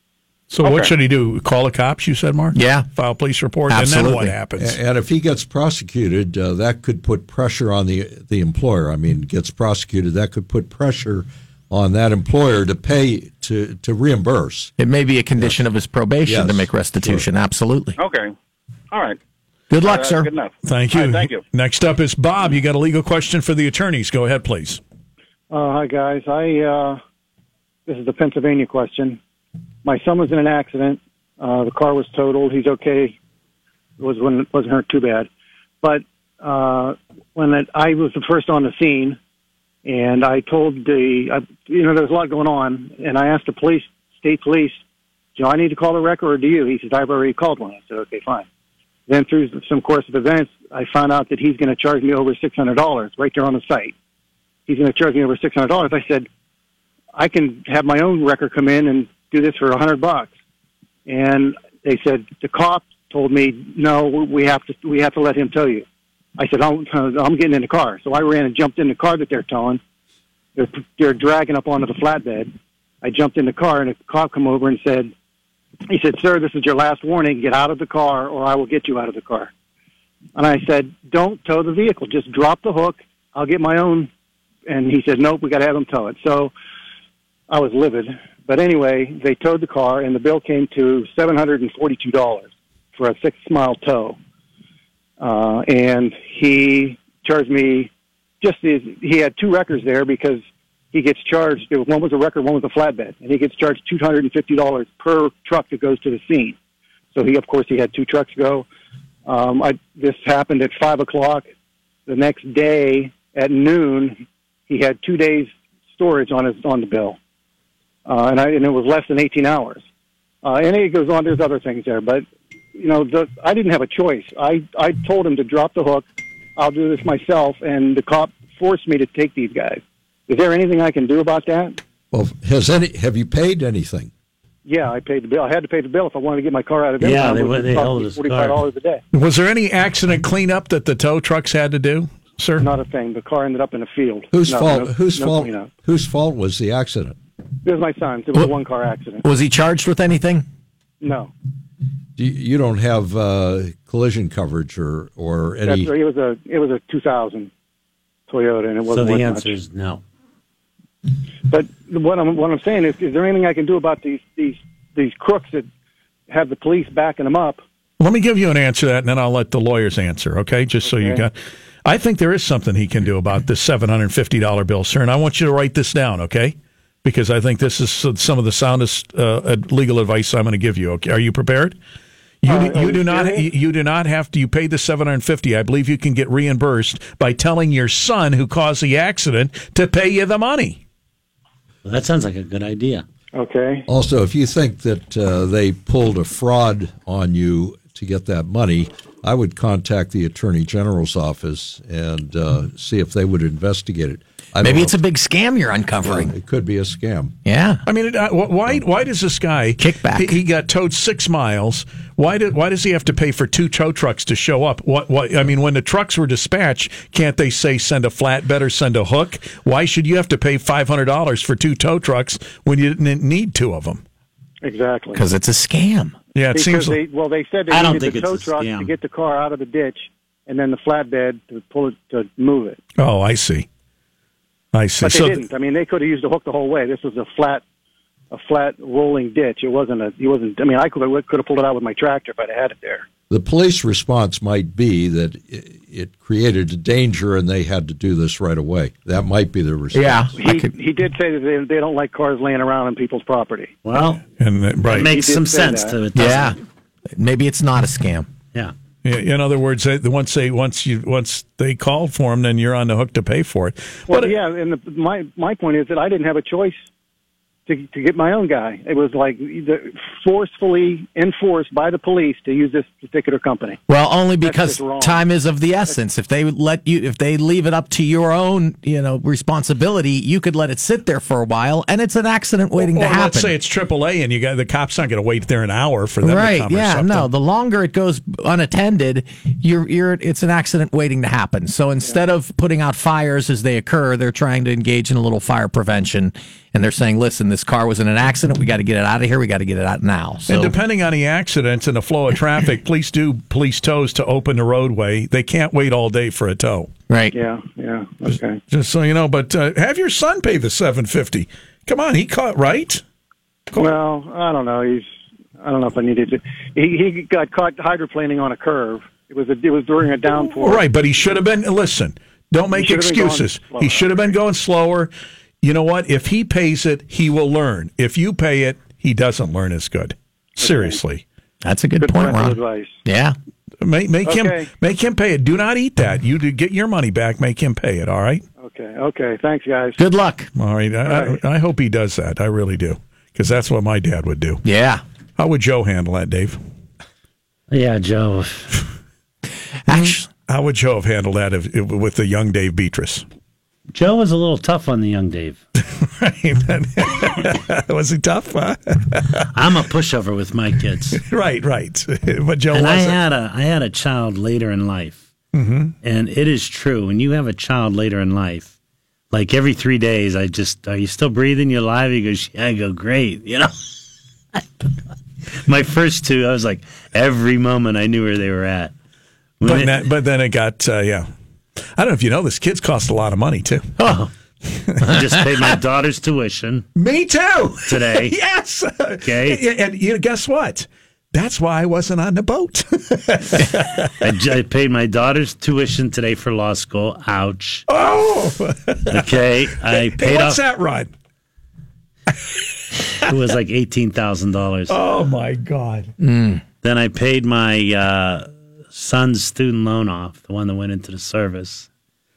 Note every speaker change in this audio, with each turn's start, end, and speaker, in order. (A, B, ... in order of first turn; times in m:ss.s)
0:00.5-0:04.8 A
0:00.6-0:00.9 B
0:02.5-0:02.9 C
0:03.7-0:04.3 C
0:04.6-0:14.7 D
0:14.8-0:18.0 C
0:16.2-0:17.3 D
0:18.0-0:18.3 B
0:18.9-0:19.2 B
0:19.7-0:20.3 C
0:19.8-0:21.4 B
0:20.6-0:24.8 A
0:25.5-0:27.0 E
0:27.8-0:29.2 E
0:29.8-0:33.2 E
0:34.0-0:35.3 E
0:35.8-0:39.2 E
0:39.8-0:44.8 E
0:45.4-0:48.4 E
0:49.1-0:53.9 E
0:54.7-0:56.3 E
0:57.1-1:00.3 E
1:01.0-1:05.8 E
1:06.4-1:09.8 E
1:10.6-1:12.5 E
1:13.0-1:15.1 E
1:15.9-1:19.5 E
1:20.4-1:24.1 E
1:24.7-1:26.5 E
1:27.5-1:34.2 E
1:35.2-1:46.6 E
1:47.1-1:48.7 E
1:49.2-1:51.5 E
1:52.0-1:57.2 E
1:58.0-1:59.8 E
2:00.4-2:11.8 E
2:12.1-2:14.1 D
2:14.6-2:19.0 E
2:17.0-2:18.6 F
2:19.1-2:22.7 A
2:22.6-2:25.7 E
2:24.3-2:27.2 D
2:27.6-2:29.2 E
2:29.2-2:30.4 C
2:31.0-2:31.3 E
2:32.2-2:35.9 D
2:35.6-2:37.5 E
2:38.3-2:39.6 E
2:38.9-2:40.0 F
2:41.5-2:45.7 E
2:46.3-2:47.6 E
2:48.0-2:51.3 A
2:50.8-2:51.2 E
2:51.8-3:01.8 A
3:02.4-3:10.8 A
3:02.4-3:03.5 E
3:11.8-3:13.0 F
3:13.3-3:13.8 E
3:13.9-3:25.0 D
3:24.6-3:26.3 C
3:26.0-3:27.3 D
3:27.4-3:27.8 C
3:27.8-3:44.0 A
3:29.8-3:30.4 C
3:44.6-3:45.2 E
3:45.1-3:46.2 C
3:46.3-3:47.0 A
3:46.5-3:52.8 E
3:47.7-3:48.9 F
3:53.0-3:53.7 A
3:54.7-3:55.4 A
3:55.0-3:57.6 E
3:58.3-4:03.0 E
4:03.3-4:10.3 D
4:09.9-4:10.7 C
4:10.4-4:13.7 E
4:13.8-4:14.2 F
4:14.4-4:15.1 A
4:14.8-4:16.6 F
4:14.9-4:16.0 E
4:16.1-4:16.6 C
4:17.2-4:18.3 C
4:19.0-4:24.3 A
4:24.1-4:26.8 E
4:27.6-4:33.8 E
4:33.9-4:43.5 C
4:34.4-4:35.2 E
4:42.8-4:47.3 A
4:46.2-5:00.7 C
5:00.5-5:06.9 A
5:07.1-5:07.3 C
5:07.3-5:08.6 E
5:08.7-5:13.0 A
5:13.7-5:20.8 E
5:20.6-5:25.1 A
5:22.7-5:24.3 E
5:25.6-5:31.2 A
5:30.6-5:31.0 E
5:31.6-5:33.4 C
5:32.0-5:33.0 E
5:33.8-5:38.4 A
5:34.2-5:34.7 E
5:38.6-5:40.0 E
5:40.0-5:40.5 C
5:40.6-5:44.6 A
5:41.0-5:41.4 E
5:44.6-5:45.0 C
5:45.4-5:46.6 A
5:47.7-5:48.8 F
5:49.9-5:50.3 C
5:49.9-5:53.2 A
5:53.9-5:55.6 F
5:55.8-5:59.5 A
5:59.5-6:01.2 F
6:01.2-6:03.2 A
6:02.7-6:05.2 F
6:05.5-6:05.9 A
6:06.0-6:08.7 F
6:09.3-6:13.9 F
6:15.5-6:18.9 F
6:19.6-6:20.0 F
6:19.6-6:21.3 A
6:21.9-6:23.9 A
6:24.0-6:24.3 F
6:24.8-6:25.1 A
6:25.0-6:26.9 F
6:27.0-6:34.1 A
6:27.9-6:28.3 F
6:29.2-6:29.6 F
6:34.2-6:37.8 F
6:37.9-6:41.1 A
6:39.1-6:40.6 F
6:43.2-6:45.0 F
6:44.9-6:46.1 A
6:46.2-6:46.6 C
6:46.8-6:51.9 F